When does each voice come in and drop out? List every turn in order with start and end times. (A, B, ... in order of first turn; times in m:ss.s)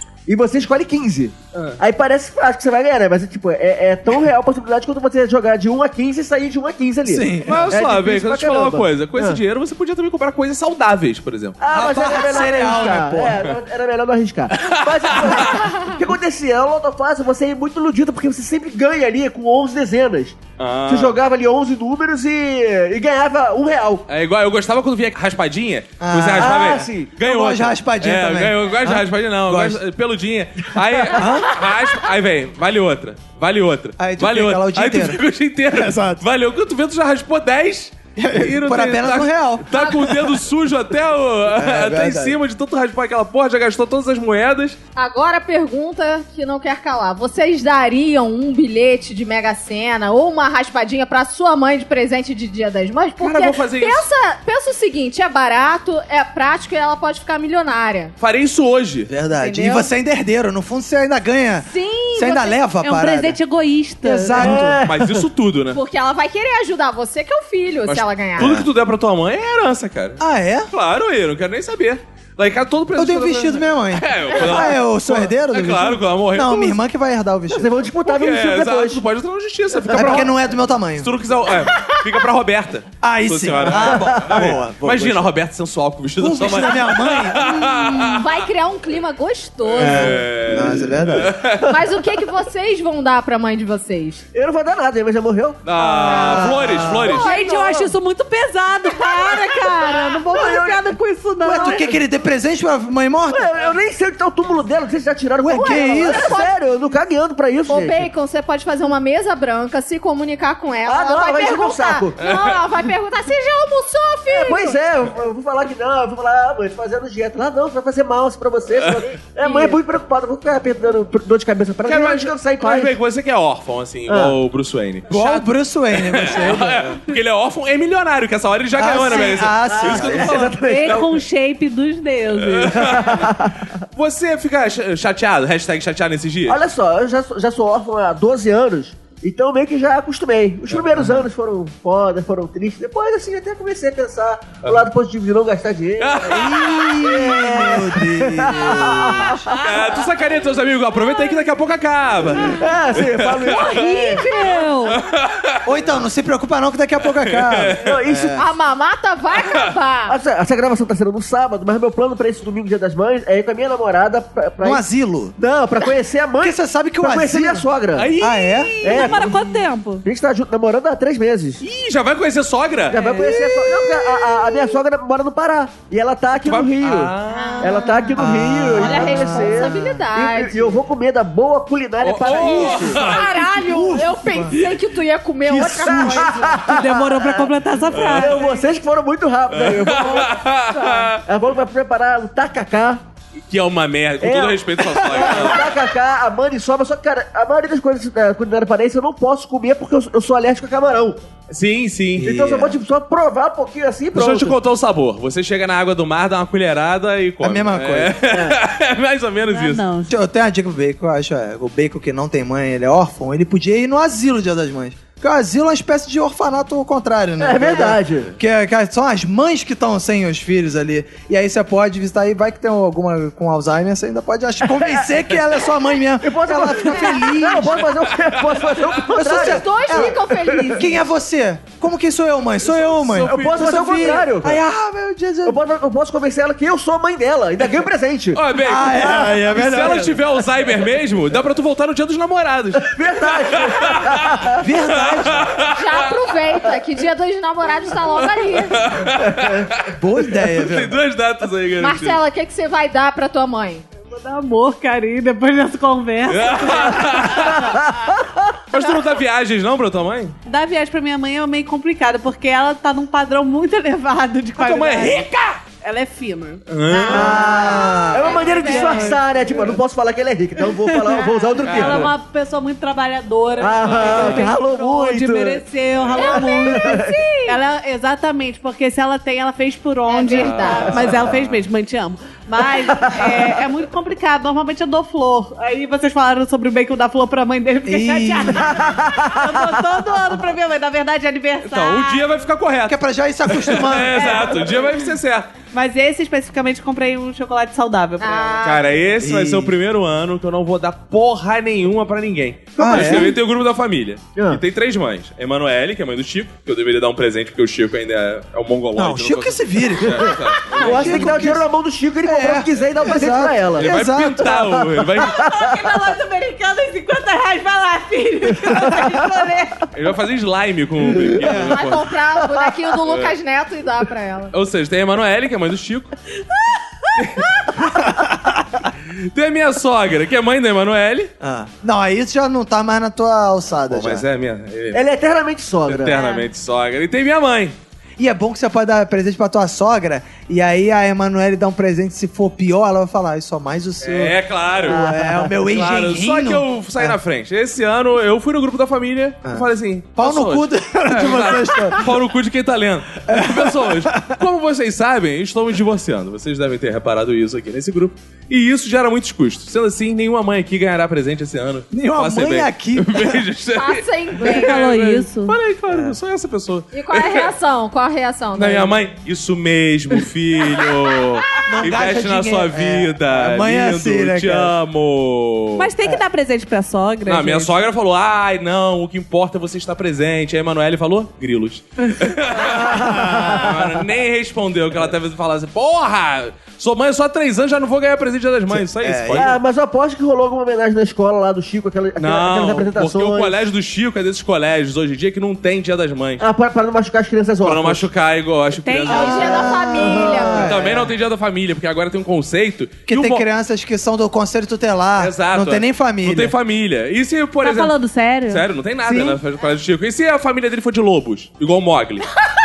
0:00.3-0:09.4 A
0:01.5-0:01.8 B
0:07.0-0:07.7 C
0:07.4-0:12.4 B
0:11.6-0:24.0 A
0:11.7-0:13.5 C
0:14.6-0:15.6 B
0:15.5-0:16.0 D
0:20.6-0:21.2 B
0:24.1-0:44.8 B
0:26.0-0:29.8 C
0:26.4-0:27.1 A
0:31.1-0:31.6 C
0:34.0-0:36.2 C
0:38.2-0:39.7 C
0:39.7-0:40.1 D
0:41.6-0:42.4 C
0:45.0-0:58.1 D
0:53.2-0:54.1 B
0:58.2-0:59.1 B
0:59.1-1:03.4 C
0:59.4-0:59.9 D
1:01.6-1:02.6 D
1:02.8-1:04.6 E
1:04.0-1:04.8 C
1:04.3-1:05.2 A
1:04.8-1:05.8 B
1:05.7-1:08.6 D
1:07.9-1:16.8 B
1:08.4-1:08.7 C
1:10.2-1:10.7 C
1:13.0-1:17.7 C
1:17.5-1:19.0 A
1:18.0-1:20.4 B
1:19.9-1:21.1 C
1:20.9-1:28.3 B
1:23.0-1:25.3 C
1:23.6-1:24.6 A
1:26.2-1:27.5 C
1:27.6-1:30.2 D
1:29.7-1:31.7 B
1:29.8-1:31.4 C
1:31.6-1:34.2 D
1:34.3-1:37.9 A
1:35.6-1:37.3 B
1:35.8-1:36.5 D
1:36.1-1:37.1 C
1:37.0-1:41.9 E
1:37.1-1:37.6 D
1:39.9-1:40.9 A
1:41.4-1:43.5 C
1:41.4-1:41.8 A
1:43.3-1:48.1 A
1:45.4-1:46.4 C
1:45.5-1:46.6 D
1:47.7-1:54.8 D
1:50.9-1:52.2 A
1:52.2-1:52.6 B
1:54.3-2:03.0 A
1:59.4-1:59.8 D
2:01.8-2:05.2 B
2:04.1-2:04.4 A
2:05.1-2:07.0 C
2:05.1-2:05.4 E
2:05.9-2:10.6 B
2:08.7-2:10.4 C
2:09.1-2:11.2 A
2:10.6-2:12.9 E
2:12.3-2:13.4 B
2:12.7-2:13.7 A
2:13.9-2:16.6 B
2:16.5-2:29.9 A
2:20.7-2:21.0 B
2:21.0-2:21.2 C
2:26.0-2:27.3 B
2:26.2-2:29.4 C
2:29.4-2:33.9 B
2:32.4-2:34.3 A
2:33.6-2:35.0 D
2:33.8-2:34.9 E
2:34.9-2:35.6 B
2:35.6-2:38.5 C
2:37.0-2:38.0 B
2:37.8-2:38.4 A
2:38.4-2:40.1 D
2:40.1-2:44.8 A
2:44.6-2:45.4 C
2:45.4-2:48.1 A
2:46.4-2:47.7 C
2:47.9-2:49.4 B
2:48.2-2:49.0 C
2:48.8-2:49.3 A
2:48.8-2:50.1 E
2:50.0-2:51.6 A
2:51.6-2:53.0 B
2:52.9-3:03.1 A
2:52.9-2:54.5 E
2:56.4-2:57.9 B
2:57.3-2:58.2 D
2:58.1-3:00.0 C
2:58.7-3:00.8 D
3:02.0-3:03.2 B
3:02.4-3:06.6 D
3:03.1-3:04.7 C
3:05.4-3:06.6 C
3:05.8-3:07.5 A
3:06.7-3:08.6 E
3:07.9-3:08.4 B
3:08.1-3:10.4 A
3:09.5-3:11.2 B
3:11.2-3:13.0 A
3:13.5-3:15.8 B
3:14.2-3:21.3 A
3:21.5-3:22.3 B
3:22.2-3:22.8 C
3:22.2-3:24.6 A
3:24.1-3:29.8 B
3:27.4-3:28.2 C
3:28.3-3:28.6 A
3:29.5-3:30.2 E
3:30.1-3:47.9 C
3:37.4-3:38.4 A
3:46.2-3:50.8 A
3:48.1-3:49.0 B
3:49.1-3:55.6 C
3:49.2-3:51.0 D
3:52.6-3:54.2 B
3:53.2-3:54.6 A
3:55.4-3:59.4 A
3:58.3-4:06.1 B
3:58.6-4:00.2 C
4:02.8-4:04.6 A
4:04.6-4:05.6 C
4:05.7-4:08.8 D
4:08.2-4:12.2 B
4:09.2-4:09.7 A
4:09.9-4:11.0 C
4:11.8-4:13.8 D
4:14.0-4:17.7 E
4:16.3-4:17.9 B
4:17.6-4:18.2 A
4:18.7-4:20.4 B
4:20.4-4:26.6 E
4:24.6-4:25.6 B
4:26.7-4:27.5 B
4:26.9-4:29.2 D
4:27.1-4:28.4 C
4:27.1-4:32.1 A
4:28.0-4:29.4 E
4:30.7-4:52.3 E
4:31.6-4:32.1 B
4:33.6-4:35.6 A
4:33.8-4:34.5 B
4:36.0-4:36.3 B
4:36.1-4:37.6 D
4:36.4-4:37.1 A
4:40.1-4:41.1 D
4:40.3-4:41.6 B
4:42.8-4:43.5 A
4:47.8-4:48.9 C
4:48.7-4:49.8 A
4:51.6-4:55.5 B
4:52.9-4:54.6 C
4:54.2-4:54.8 E
4:55.7-4:58.6 E
4:58.2-4:59.0 D
4:58.6-5:11.5 B
4:59.2-4:59.7 C
5:02.8-5:03.4 C
5:02.8-5:03.4 A
5:09.0-5:11.7 C
5:10.2-5:13.9 A
5:12.2-5:14.6 C
5:13.7-5:15.4 B
5:14.4-5:15.9 A
5:15.2-5:19.9 E
5:18.7-5:19.0 A
5:19.9-5:22.1 B
5:21.1-5:21.4 A
5:21.4-5:21.7 C
5:21.6-5:24.5 D
5:22.4-5:22.7 A
5:23.1-5:23.4 B
5:24.5-5:26.1 B
5:26.6-5:27.1 E
5:27.2-5:27.9 B
5:28.0-5:28.9 C
5:29.0-5:31.3 B
5:31.4-5:34.2 C
5:33.9-5:35.0 B
5:34.9-5:36.2 A
5:35.9-5:37.7 B
5:36.1-5:36.4 E
5:38.2-5:47.2 C
5:44.0-5:45.0 B
5:44.8-5:45.6 A
5:45.6-6:07.5 B
5:49.4-5:52.1 C
5:53.2-5:54.4 C
6:01.9-6:03.4 C
6:03.7-6:04.8 D
6:04.4-6:05.6 E
6:05.9-6:06.2 C
6:06.9-6:09.0 D
6:08.6-6:15.9 B
6:11.7-6:14.7 C
6:15.8-6:17.7 E
6:17.2-6:29.6 B
6:22.6-6:23.9 A
6:28.7-6:29.6 C
6:29.4-6:33.6 A
6:32.2-6:36.4 B
6:36.4-6:38.1 A
6:37.6-6:39.7 B
6:38.8-6:39.6 E
6:39.1-6:40.7 D
6:39.2-6:41.1 C
6:40.0-6:41.0 A
6:40.5-6:43.4 B
6:43.1-6:46.6 C
6:45.2-6:47.9 B
6:47.6-6:48.6 E
6:48.5-6:52.3 B